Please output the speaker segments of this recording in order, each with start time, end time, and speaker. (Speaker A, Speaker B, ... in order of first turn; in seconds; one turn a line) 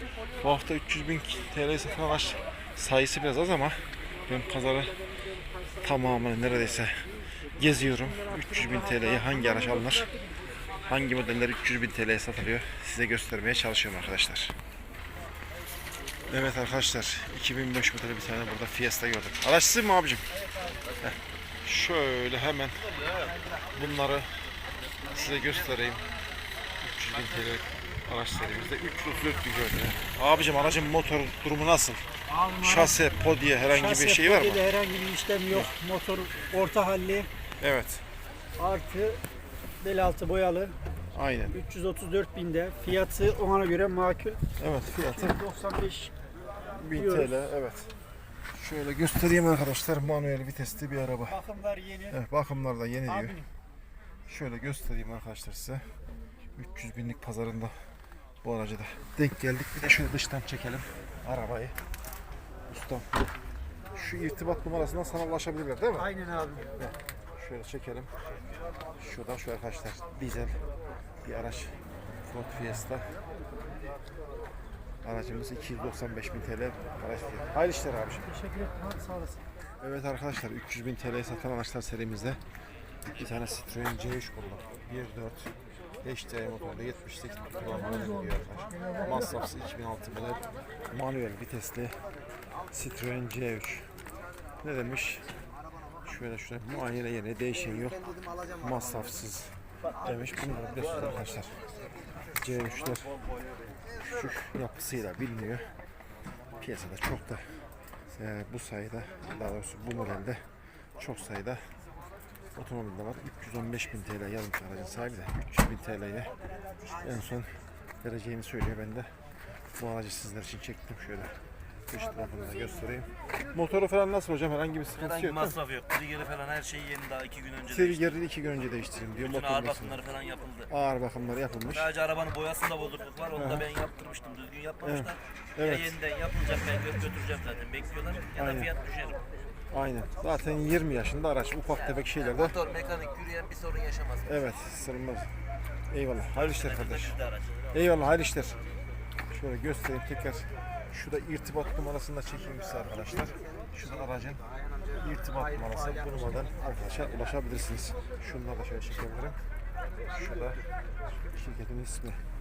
Speaker A: 0.4-5.0
Speaker A: 5.8-10.1
Speaker A: 10.8-14.6
Speaker A: 16.3-20.3
Speaker A: 21.0-22.9
Speaker A: 23.7-24.4
Speaker A: 25.1-26.1
Speaker A: 26.8-34.7
Speaker B: 32.4-32.9
Speaker B: 33.7-37.3
Speaker A: 37.6-38.0
Speaker B: 38.6-39.2
Speaker B: 39.8-40.8
Speaker A: 41.1-41.6
Speaker B: 41.5-44.4
Speaker A: 44.6-45.4
Speaker B: 45.0-46.1
Speaker A: 46.7-47.9
Speaker B: 46.9-47.4
Speaker A: 48.5-51.4
Speaker A: 52.1-53.4
Speaker A: 54.2-56.0
Speaker A: 56.5-57.9
Speaker A: 58.4-61.8
Speaker A: 62.7-63.3
Speaker A: 63.9-66.2
Speaker B: 66.3-66.7
Speaker A: 66.8-68.1
Speaker A: 69.0-70.6
Speaker A: 71.2-73.2
Speaker A: 75.0-78.4
Speaker B: 78.4-79.4
Speaker A: 79.8-82.4
Speaker A: 83.1-92.0
Speaker A: 92.7-93.9
Speaker A: 94.6-95.3
Speaker A: 96.0-101.6
Speaker A: 102.3-103.1
Speaker A: 104.0-105.7
Speaker A: 106.6-110.5
Speaker A: 111.0-111.7
Speaker A: 112.5-116.3
Speaker A: 117.0-119.1
Speaker A: 119.7-121.4
Speaker A: 121.9-125.6
Speaker C: 125.0-128.0
Speaker A: 127.6-130.1
Speaker C: 129.3-130.7
Speaker A: 130.7-131.9
Speaker C: 131.8-139.2
Speaker A: 133.3-133.7
Speaker A: 134.8-136.0
Speaker A: 138.3-138.7
Speaker A: 139.7-142.6
Speaker C: 142.2-144.2
Speaker A: 144.2-145.3
Speaker A: 145.9-147.2
Speaker C: 147.1-147.4
Speaker A: 147.7-148.6
Speaker A: 149.3-159.4
Speaker A: 160.1-160.6
Speaker A: 161.3-162.2